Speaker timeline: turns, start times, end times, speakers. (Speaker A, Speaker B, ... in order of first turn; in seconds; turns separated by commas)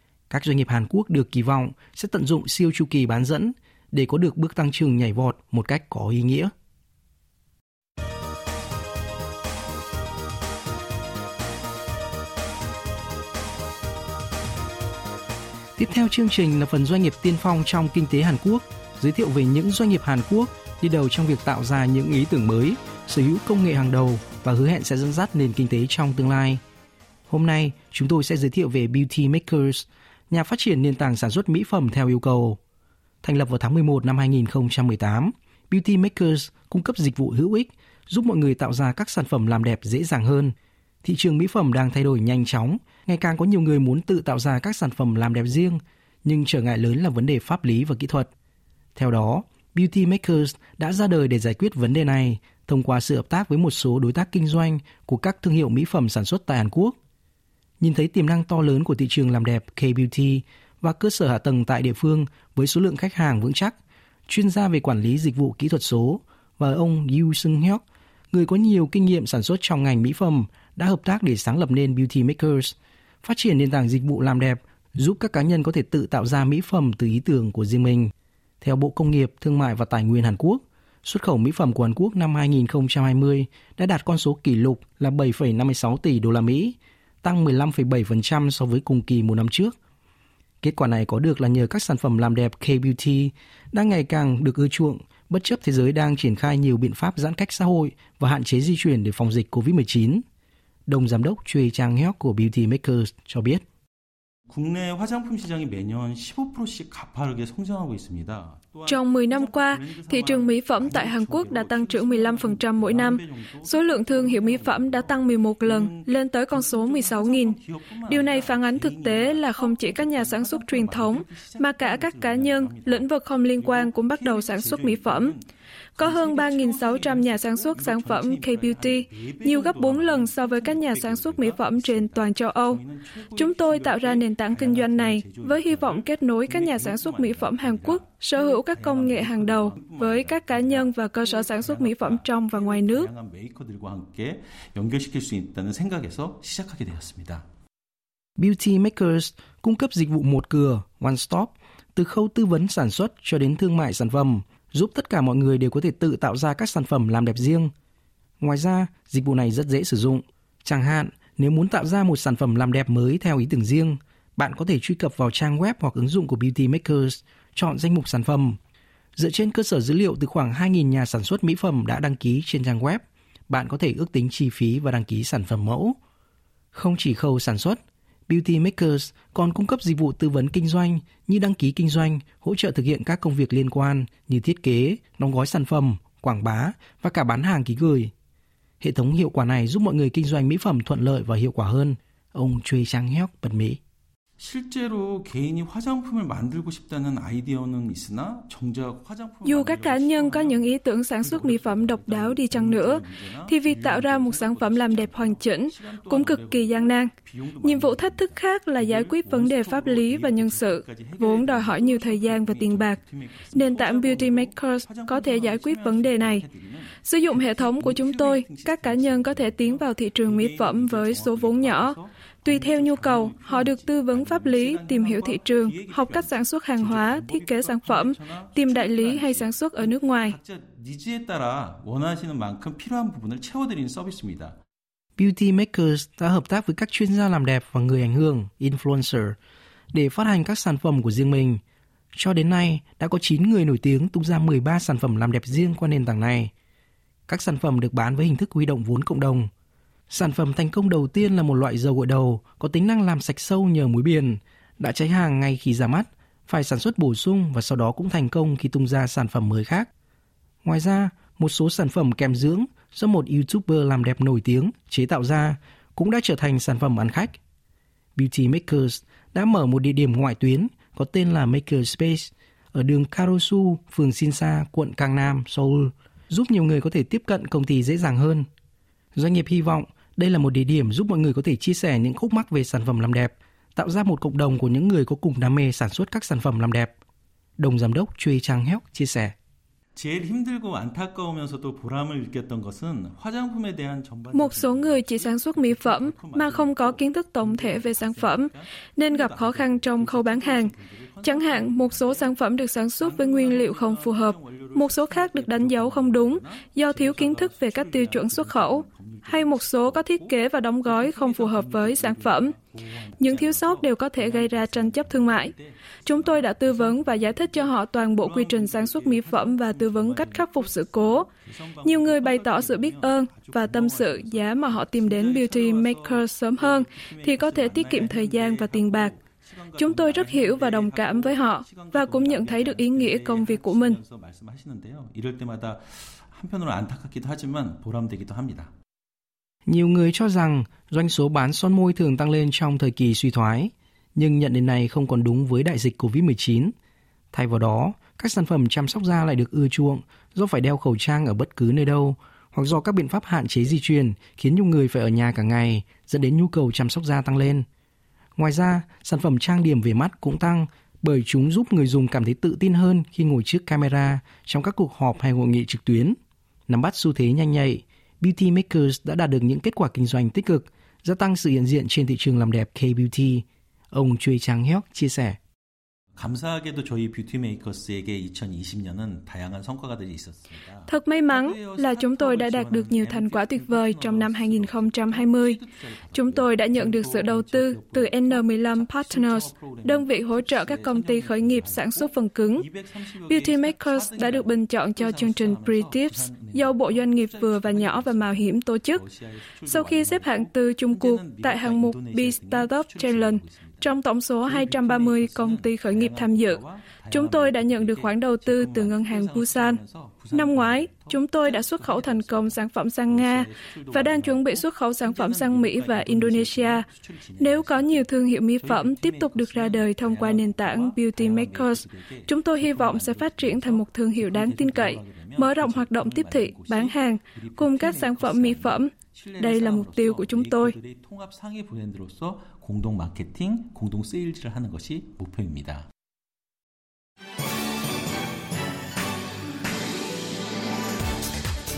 Speaker A: 0.3-6.5, Speaker A: 15.8-26.6, Speaker A: 27.3-32.6, Speaker A: 33.2-48.3, Speaker A: 49.0-57.0, Speaker A: 57.8-63.7, Speaker A: 64.3-89.7, Speaker A: 90.6-100.2, Speaker A: 100.9-103.6, Speaker B: 104.5-125.4, Speaker C: 108.8-125.4, Speaker C: 126.0-143.1, Speaker B: 126.0-147.4, Speaker A: 148.4-157.7, Speaker A: 158.4-168.6, Speaker A: 169.2-176.0, Speaker A: 176.7-188.1, Speaker A: 188.8-193.8, Speaker B: 194.4-234.6, Speaker C: 199.4-213.0, Speaker C: 213.5-216.4, Speaker C: 217.0-230.4, Speaker A: 235.2-239.4, Speaker A: 239.9-241.6, Speaker A: 242.1-246.5, Speaker A: 247.3-249.5, Speaker A: 250.1-259.9, Speaker A: 260.6-267.4, Speaker A: 268.1-278.5, Speaker A: 279.1-286.9, Speaker A: 287.6-289.3, Speaker B: 289.9-302.3, Speaker C: 294.3-312.5, Speaker B: 303.0-310.3, Speaker B: 310.8-315.6, Speaker C: 313.2-315.5, Speaker C: 316.0-321.3, Speaker B: 316.1-317.6, Speaker B: 318.2-338.7, Speaker C: 321.8-329.1, Speaker C: 329.8-334.0, Speaker A: 339.7-346.7, Speaker A: 347.3-357.6, Speaker A: 358.4-366.2, Speaker A: 366.7-375.4, Speaker B: 376.1-398.4, Speaker C: 380.9-392.7, Speaker C: 393.3-399.0, Speaker B: 399.6-403.6, Speaker C: 399.6-416.9, Speaker B: 404.4-412.5, Speaker B: 413.1-418.1, Speaker C: 417.4-430.8, Speaker B: 418.6-435.9